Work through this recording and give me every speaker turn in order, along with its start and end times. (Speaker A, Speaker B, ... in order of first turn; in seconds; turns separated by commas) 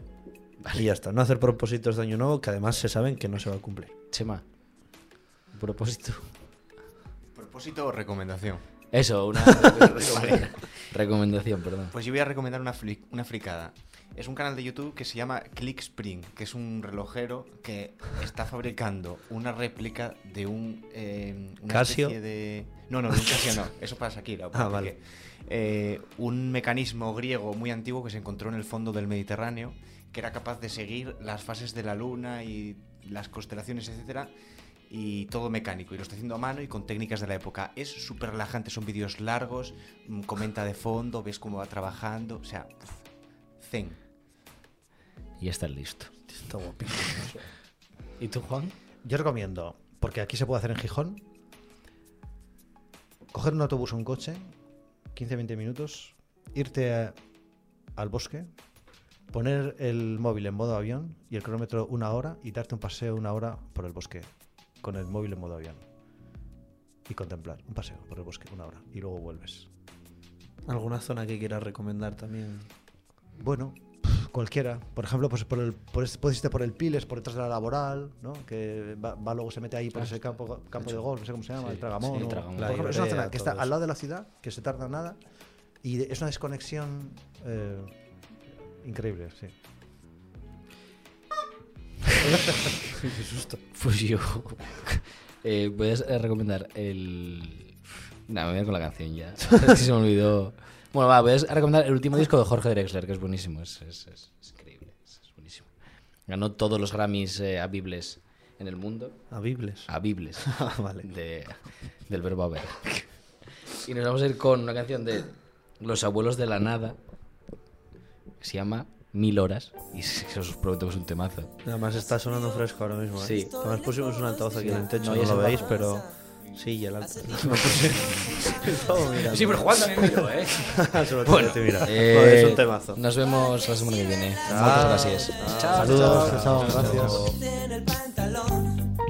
Speaker A: 0.7-3.9, Speaker B: 4.1-4.4, Speaker B: 5.5-6.3, Speaker C: 7.3-8.6, Speaker B: 8.9-11.9, Speaker C: 11.9-34.3, Speaker A: 21.7-22.1, Speaker A: 24.5-24.9, Speaker C: 34.9-43.0, Speaker C: 43.6-44.0, Speaker B: 45.4-46.3, Speaker A: 46.3-47.5, Speaker B: 48.2-48.7, Speaker D: 49.0-51.2, Speaker D: 53.3-54.5, Speaker D: 55.1-57.2, Speaker D: 58.0-58.5, Speaker D: 59.3-65.8, Speaker D: 67.1-69.7, Speaker A: 70.7-72.7, Speaker D: 73.3-85.2, Speaker B: 80.0-81.0, Speaker B: 81.6-83.0, Speaker A: 82.6-83.7, Speaker D: 85.8-88.0, Speaker D: 88.8-89.5, Speaker A: 92.3-93.6, Speaker B: 93.7-105.7, Speaker B: 106.3-109.2, Speaker A: 109.3-111.1, Speaker B: 109.9-113.1, Speaker B: 113.7-117.0, Speaker B: 118.4-121.5, Speaker A: 121.6-133.0, Speaker E: 122.2-122.7, Speaker B: 123.2-123.5, Speaker E: 123.2-126.2, Speaker B: 124.6-125.7, Speaker E: 127.0-129.6, Speaker B: 127.4-137.2, Speaker E: 133.1-138.9, Speaker A: 134.5-137.4, Speaker D: 134.5-135.1, Speaker D: 135.7-137.2